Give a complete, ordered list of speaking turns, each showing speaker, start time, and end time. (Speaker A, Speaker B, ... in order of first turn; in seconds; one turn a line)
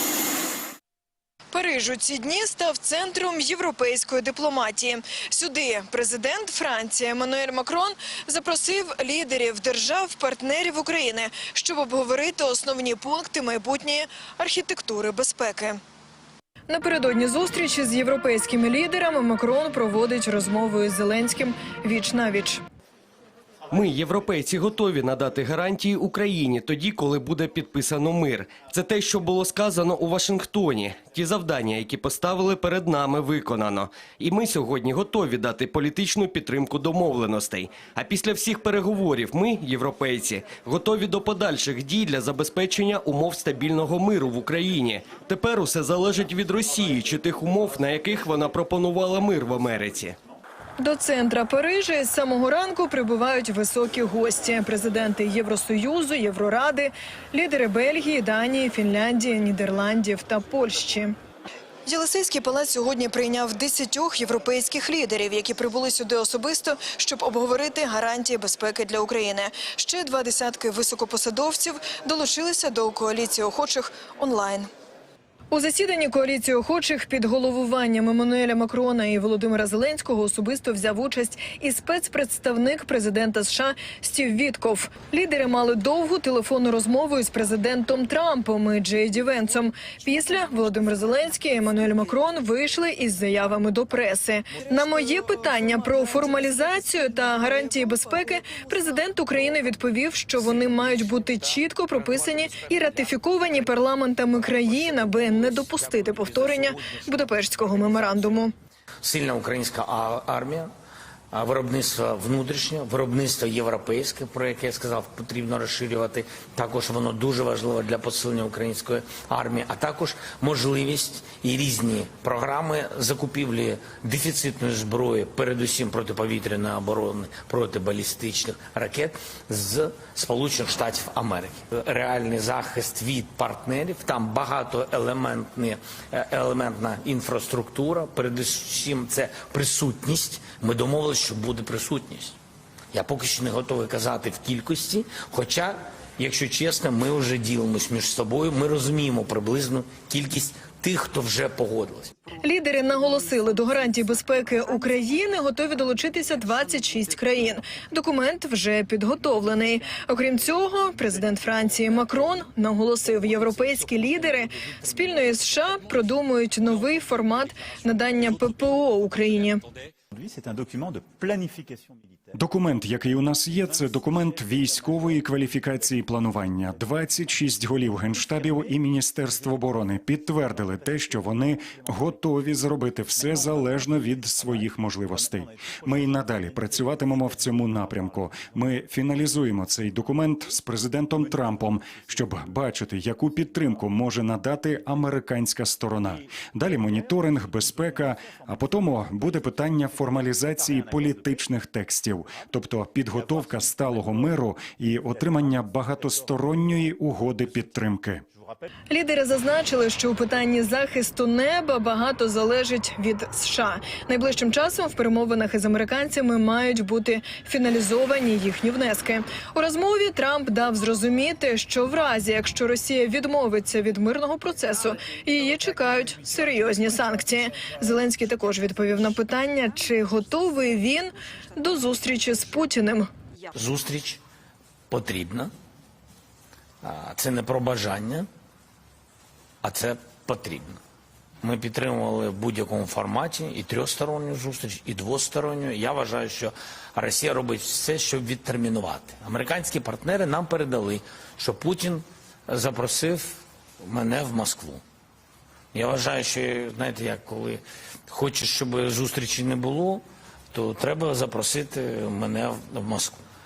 Speaker A: 1.5-15.8
Speaker A: 16.7-22.6
Speaker B: 23.7-50.2
Speaker A: 50.8-61.1
Speaker A: 61.9-74.7
Speaker A: 75.5-108.5
Speaker C: 109.0-110.7
Speaker C: 111.3-142.4
Speaker C: 142.9-152.1
Speaker A: 152.4-169.6
Speaker D: 170.3-171.8
Speaker E: 172.3-208.2
Speaker D: 183.4-184.5
Speaker D: 185.6-187.0
Speaker A: 208.9-233.1
Speaker C: 233.5-234.2
Speaker C: 234.9-235.5
Speaker C: 236.8-238.3
Speaker C: 239.6-240.8
Speaker C: 241.4-254.8
Speaker C: 255.7-263.2